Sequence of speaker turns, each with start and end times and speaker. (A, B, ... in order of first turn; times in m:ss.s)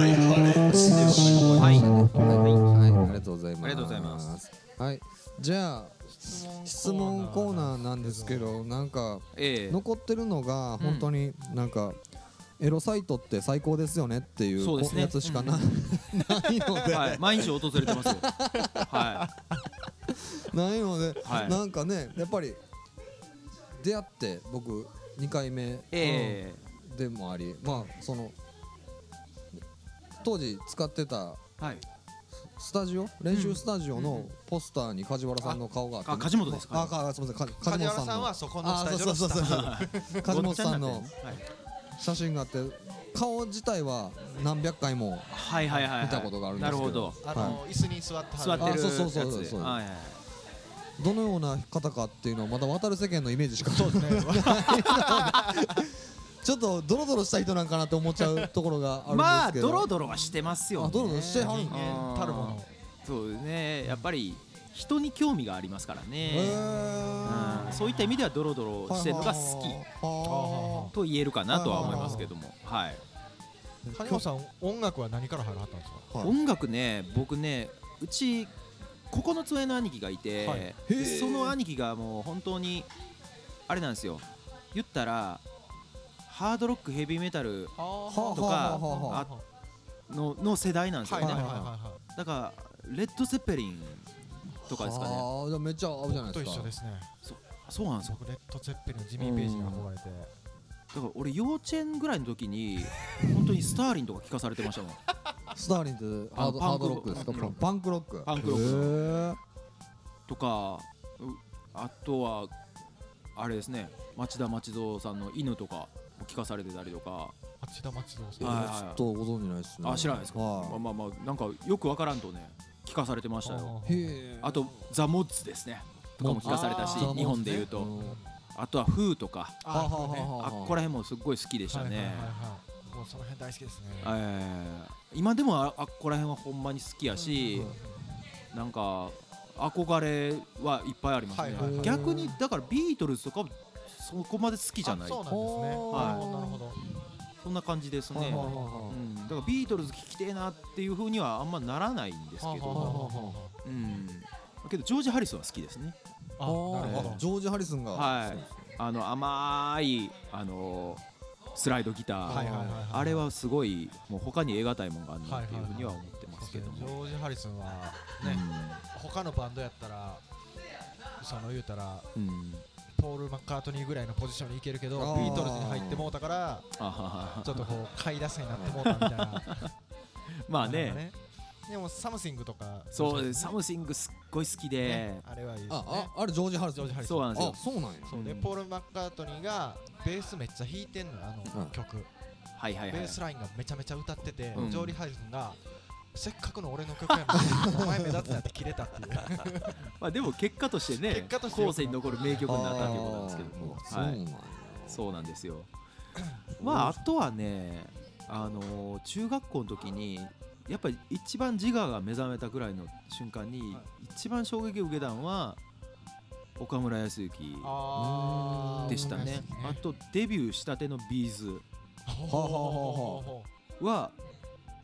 0:00.7-0:12.0 A
0:00.7-0:03.1 B
0:01.6-0:01.9 C
0:03.6-0:04.3 C
0:06.1-0:08.6 B
0:09.4-0:09.8 C
0:10.8-0:11.1 C
0:12.6-0:18.9 A
0:14.6-0:15.7 C
0:16.6-0:16.9 B
0:16.9-0:18.2 C
0:18.6-0:19.6 B
0:18.9-0:19.2 C
0:20.1-0:22.6 A
0:21.2-0:21.6 C
0:23.8-0:28.4 A
0:25.9-0:26.6 C
0:30.2-0:31.4 A
0:31.6-0:31.8 C
0:32.6-0:41.4 A
0:33.3-0:34.3 C
0:36.0-0:36.9 C
0:37.6-0:40.2 B
0:39.4-0:41.4 C
0:42.0-0:45.3 A
0:45.3-0:47.6 C
0:45.9-0:47.6 A
0:47.2-0:48.8 B
0:48.4-0:50.2 C
0:48.6-0:49.8 A
0:51.0-0:55.9 A
0:53.6-0:55.4 B
0:56.4-0:59.9 A
0:58.2-0:58.5 B
0:59.1-1:06.6 C
1:00.7-1:02.0 A
1:01.0-1:02.7 B
1:06.3-1:07.8 A
1:06.4-1:08.2 B
1:07.2-1:09.8 C
1:08.8-1:10.9 A
1:10.2-1:10.9 B
1:10.9-1:13.0 C
1:11.5-1:12.3 A
1:11.7-1:12.3 B
1:13.8-1:14.2 A
1:13.9-1:16.1 B
1:16.2-1:18.5 C
1:19.1-1:22.9 C
1:20.4-1:20.7 B
1:20.9-1:21.6 A
1:23.7-1:24.2 C
1:24.7-1:25.4 C
1:26.3-1:27.7 C
1:27.8-1:29.4 B
1:28.1-1:29.2 A
1:28.3-1:29.3 C
1:30.1-1:34.1 C
1:31.0-1:32.0 B
1:31.2-1:31.6 A
1:34.6-1:35.3 C
1:34.7-1:36.7 A
1:36.1-1:37.1 B
1:37.2-1:38.2 C
1:38.0-1:40.3 B
1:39.2-1:39.8 C
1:40.9-1:45.0 C
1:45.5-1:49.4 A
1:46.3-1:47.6 C
1:47.2-1:47.5 B
1:48.2-1:49.0 C
1:50.3-1:52.5 C
1:53.4-1:57.3 C
1:57.6-1:58.6 B
1:58.4-1:59.0 C
1:58.4-2:00.8 A
1:59.8-2:03.7 C
2:03.4-2:04.2 B
2:03.8-2:04.6 A
2:04.4-2:07.9 C
2:06.2-2:08.2 A
2:06.4-2:08.3 B
2:08.5-2:09.6 C
2:09.6-2:10.3 B
2:09.7-2:10.8 A
2:10.4-2:12.3 C
2:11.7-2:14.2 B
2:14.0-2:17.7 C
2:17.2-2:18.0 B
2:18.5-2:25.2 C
2:21.3-2:22.3 B
2:21.6-2:22.3 A
2:24.8-2:26.8 B
2:25.3-2:26.6 A
2:25.9-2:26.2 C
2:27.4-2:33.1 C
2:28.1-2:29.0 A
2:28.2-2:28.9 B
2:32.4-2:33.5 B
2:32.7-2:33.4 A
2:33.6-2:36.0 C
2:36.4-2:37.2 B
2:36.4-2:38.6 A
2:36.8-2:37.1 C
2:37.9-2:41.0 C
2:41.6-2:46.9 C
2:42.2-2:43.2 B
2:42.3-2:42.6 A
2:45.2-2:50.2 B
2:48.2-2:48.8 C
2:51.2-2:52.0 B
2:52.1-2:52.6 C
2:52.9-2:56.7 B
2:54.9-2:56.1 A
2:55.2-2:55.4 C
2:56.8-2:57.7 C
2:57.4-2:59.7 B
2:58.6-2:58.8 A
2:58.8-2:59.7 C
3:00.5-3:01.0 C
3:00.6-3:03.5 B
3:02.9-3:05.2 C
3:04.8-3:06.1 B
3:05.7-3:08.1 A
3:06.7-3:07.5 B
3:07.0-3:08.5 C
3:08.1-3:12.1 B
3:12.6-3:13.2 C
3:12.9-3:15.6 B
3:14.5-3:15.0 C
3:16.1-3:19.7 B
3:20.0-3:24.2 C
3:21.0-3:22.5 B
3:22.4-3:25.0 A
3:24.9-3:25.7 C
3:26.6-3:27.0 A
3:26.6-3:35.6 C
3:36.6-3:37.8 C
3:37.6-3:39.8 B
3:37.9-3:39.4 A
3:38.9-3:41.6 C
3:42.0-3:43.5 B
3:42.3-3:43.2 A
3:43.8-3:44.1 C